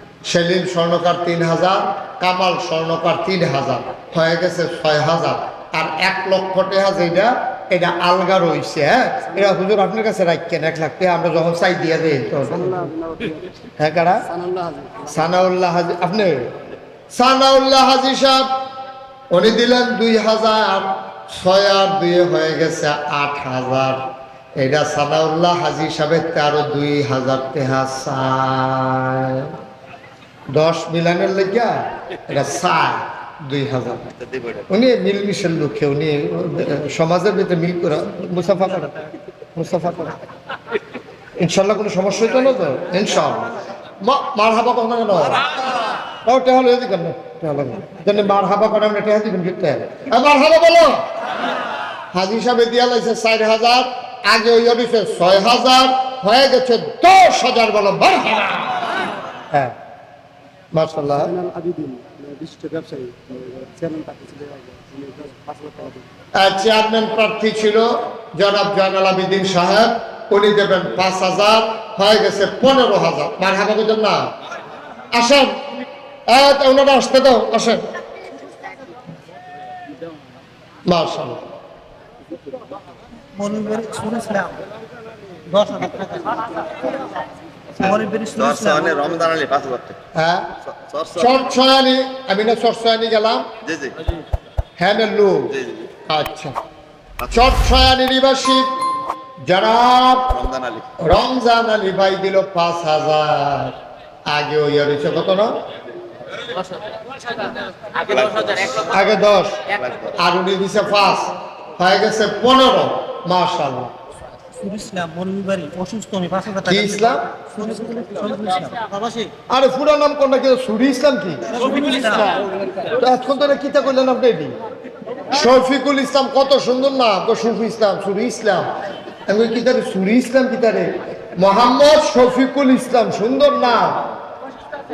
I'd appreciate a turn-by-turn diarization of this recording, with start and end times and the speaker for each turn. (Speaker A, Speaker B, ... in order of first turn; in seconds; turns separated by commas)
Speaker A: 0.2-12.8, Speaker B: 9.3-9.6, Speaker B: 12.5-13.5, Speaker A: 13.8-14.2, Speaker B: 14.3-15.3, Speaker A: 15.1-16.5, Speaker A: 17.1-18.5, Speaker A: 19.3-24.0, Speaker A: 24.6-29.5, Speaker A: 30.5-34.1, Speaker C: 34.2-34.6, Speaker A: 34.7-38.9, Speaker D: 38.4-39.1, Speaker A: 39.6-40.2, Speaker A: 41.4-43.5, Speaker A: 44.0-45.4, Speaker A: 46.2-51.1, Speaker A: 52.1-58.9, Speaker A: 60.7-61.3, Speaker B: 61.1-66.1, Speaker A: 66.4-74.3, Speaker A: 75.1-75.5, Speaker A: 76.3-77.8, Speaker A: 80.9-81.4, Speaker D: 83.3-84.6, Speaker D: 85.5-87.0, Speaker D: 87.8-89.1, Speaker C: 87.8-90.0, Speaker A: 90.2-90.5, Speaker C: 90.6-91.4, Speaker A: 91.2-93.5, Speaker C: 93.6-94.0, Speaker A: 94.8-95.5, Speaker C: 95.5-95.9, Speaker A: 96.1-96.6, Speaker C: 97.2-97.5, Speaker A: 97.3-98.7, Speaker A: 99.5-100.3, Speaker C: 100.3-100.9, Speaker A: 101.0-105.6, Speaker C: 107.9-109.0, Speaker A: 108.9-109.6, Speaker C: 109.7-110.1, Speaker A: 110.2-113.9, Speaker D: 114.6-119.3, Speaker A: 116.7-117.3, Speaker A: 119.5-121.5, Speaker D: 121.5-122.4, Speaker A: 123.0-124.6, Speaker A: 125.3-128.7, Speaker A: 129.3-134.1